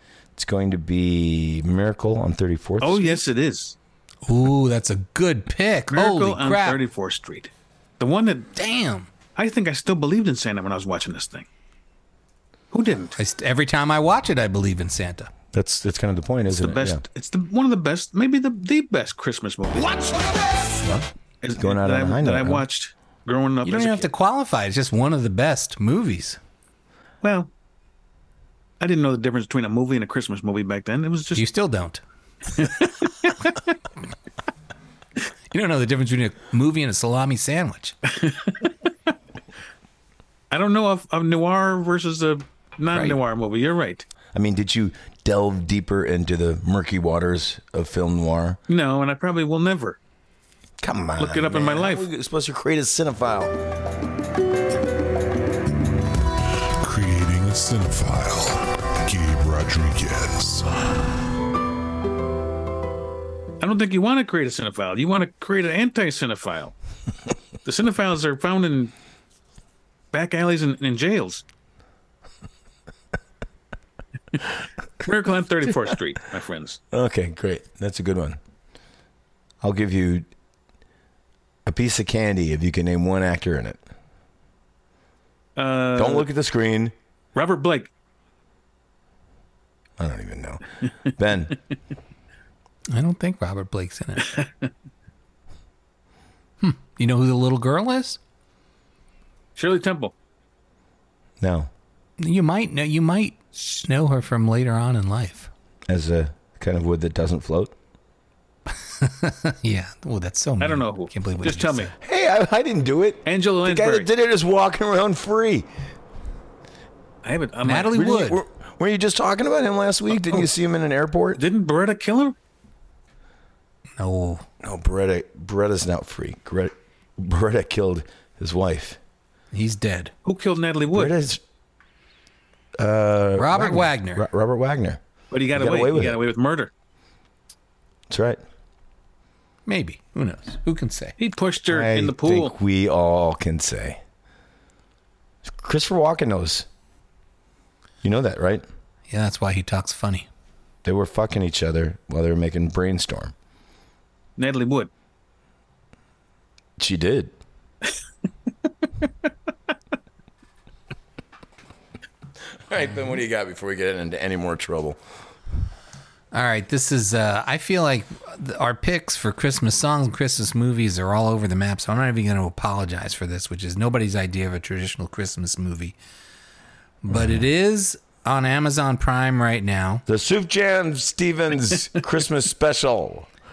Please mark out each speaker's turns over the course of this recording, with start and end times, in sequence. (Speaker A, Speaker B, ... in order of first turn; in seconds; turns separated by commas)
Speaker A: 0.3-3.2, Speaker B: 2.8-3.8, Speaker C: 4.3-6.8, Speaker B: 5.9-8.5, Speaker C: 8.5-9.1, Speaker B: 9.3-11.5, Speaker B: 12.7-13.2, Speaker C: 13.2-15.3, Speaker A: 15.5-17.0, Speaker B: 16.5-20.0, Speaker A: 20.8-22.6, Speaker B: 21.4-24.1, Speaker C: 23.6-26.4, Speaker B: 27.2-27.5, Speaker B: 28.8-31.4, Speaker C: 31.4-32.0, Speaker B: 32.6-33.3, Speaker C: 35.5-37.9, Speaker B: 38.1-38.6, Speaker B: 40.5-44.0, Speaker A: 44.3-48.6, Speaker B: 48.7-50.0, Speaker A: 50.8-53.5, Speaker B: 51.2-52.0, Speaker D: 56.8-58.5, Speaker A: 59.0-59.4, Speaker D: 59.2-60.6, Speaker B: 63.6-66.7, Speaker B: 67.6-68.9, Speaker B: 70.1-71.4, Speaker B: 75.0-76.8, Speaker A: 76.9-78.4, Speaker A: 79.6-80.3, Speaker A: 81.7-83.8, Speaker B: 85.5-86.3, Speaker A: 85.9-86.9, Speaker B: 87.3-87.9, Speaker A: 90.0-91.5, Speaker C: 92.9-94.3, Speaker B: 94.3-94.7, Speaker C: 96.6-98.2, Speaker B: 99.5-100.1, Speaker A: 101.4-101.7, Speaker C: 102.2-105.5, Speaker A: 105.9-107.7, Speaker C: 109.0-111.9, Speaker B: 110.6-111.9, Speaker A: 112.0-115.7, Speaker B: 113.2-114.1, Speaker B: 117.2-118.0, Speaker C: 117.7-118.4, Speaker A: 117.9-121.4, Speaker B: 121.3-122.3, Speaker C: 124.0-124.4, Speaker A: 124.6-129.0, Speaker C: 129.5-130.1, Speaker B: 130.2-131.1, Speaker A: 130.9-131.4, Speaker A: 132.8-135.0, Speaker C: 133.4-134.2, Speaker B: 135.3-136.7, Speaker A: 135.5-136.2, Speaker A: 138.1-138.4, Speaker C: 139.7-141.2, Speaker B: 141.2-142.5, Speaker A: 141.6-144.0, Speaker A: 145.4-146.7, Speaker A: 148.0-148.6, Speaker C: 149.1-150.3, Speaker A: 150.8-153.3, Speaker B: 154.4-154.9, Speaker A: 156.8-157.3, Speaker A: 162.7-165.0, Speaker C: 166.3-175.9, Speaker C: 177.0-180.0, Speaker A: 180.1-183.3